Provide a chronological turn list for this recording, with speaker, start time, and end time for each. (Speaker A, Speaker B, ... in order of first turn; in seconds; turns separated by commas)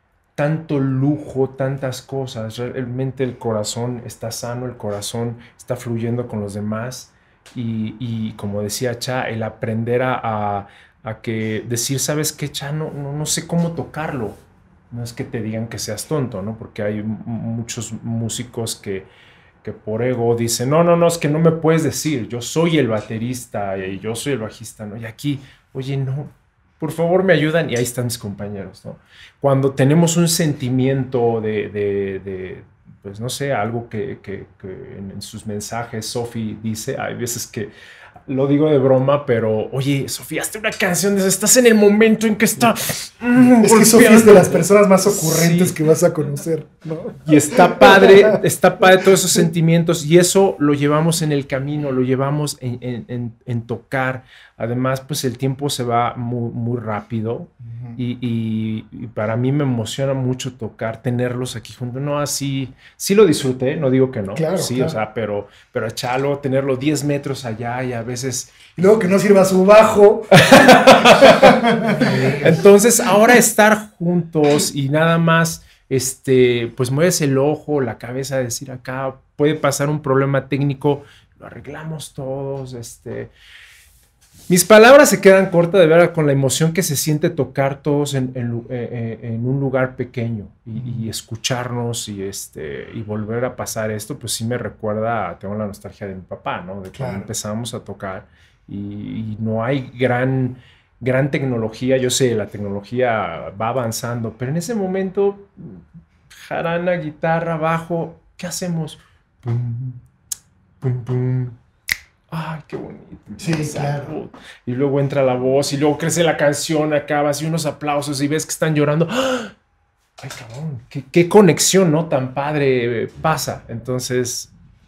Speaker A: 0.4-19.1, Speaker A: 19.6-37.7, Speaker A: 38.3-45.8, Speaker B: 43.6-48.4, Speaker A: 47.2-69.1, Speaker B: 57.6-58.0, Speaker B: 64.3-65.0, Speaker B: 68.8-72.6, Speaker A: 70.4-83.3, Speaker A: 84.5-110.0, Speaker B: 90.7-91.1, Speaker B: 96.9-97.3, Speaker A: 110.8-111.6, Speaker A: 112.3-119.5, Speaker B: 113.4-114.1, Speaker A: 120.2-124.5